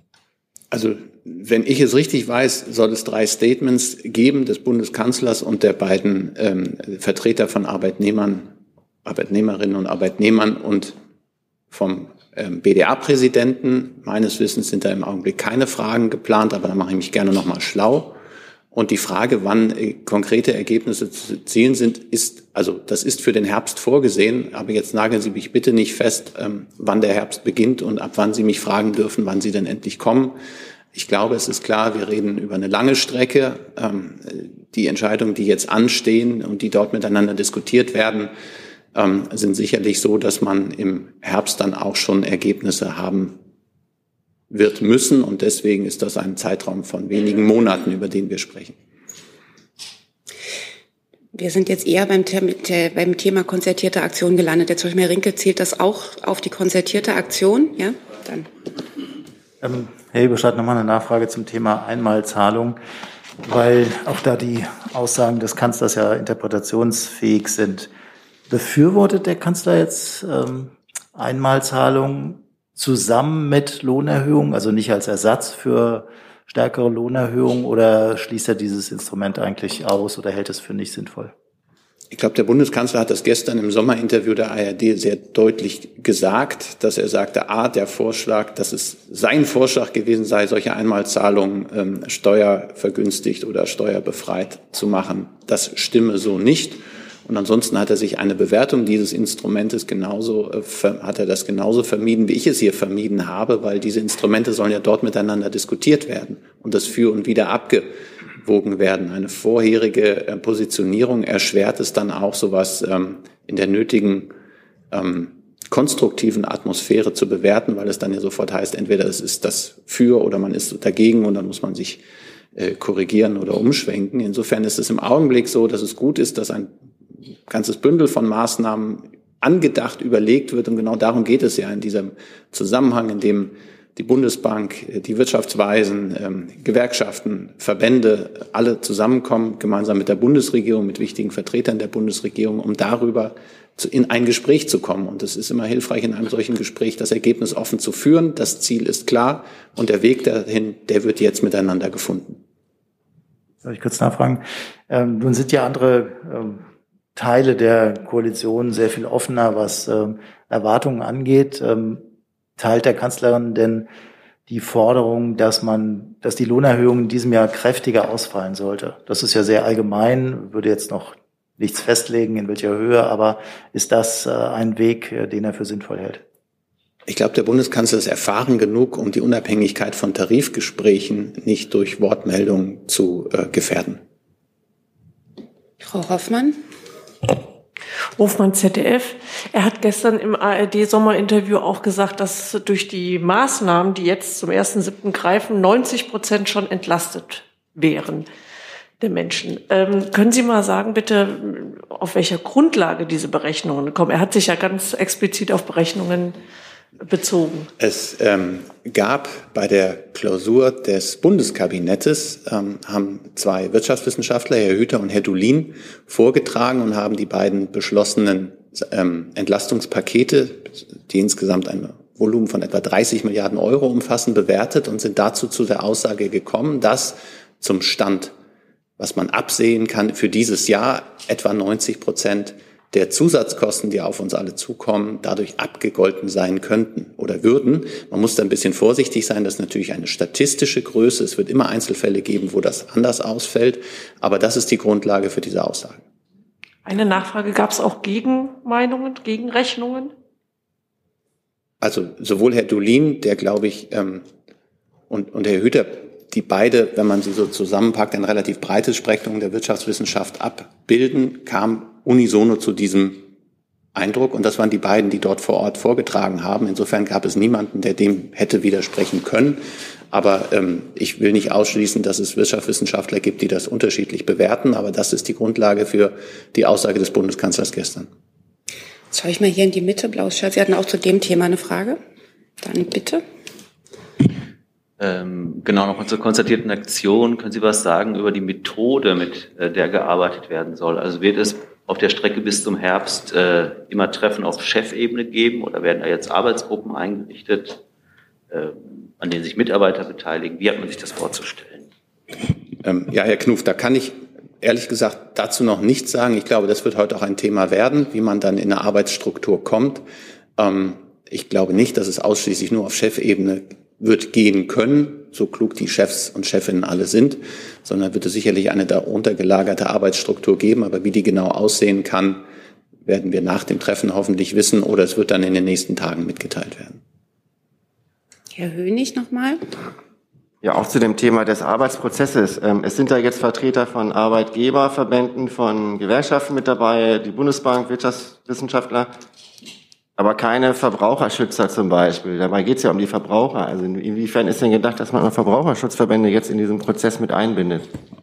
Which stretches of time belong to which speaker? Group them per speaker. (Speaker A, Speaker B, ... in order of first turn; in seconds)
Speaker A: 0.7-8.5, 9.0-10.9, 11.7-18.1, 18.7-30.4, 30.9-38.3, 38.9-43.4, 44.5-48.7, 82.1-114.3, 114.9-122.0, 122.5-126.7, 127.5-152.4, 177.1-184.0, 207.8-228.3, 229.0-246.0, 251.8-254.2, 255.1-263.2, 263.9-278.1, 302.8-310.0, 310.6-322.4, 323.0-327.0
Speaker B: 51.3-58.5, 185.8-186.6, 279.1-282.0, 282.6-283.2, 328.5-329.7
Speaker C: 59.6-62.8, 63.4-67.9, 68.5-81.3, 153.6-162.0, 162.6-163.9, 164.5-176.2
Speaker D: 188.2-198.3, 199.0-206.3, 207.0-207.7, 246.8-250.1
Speaker E: 285.0-297.8, 298.5-301.9
Speaker F: 330.6-339.1, 340.2-347.9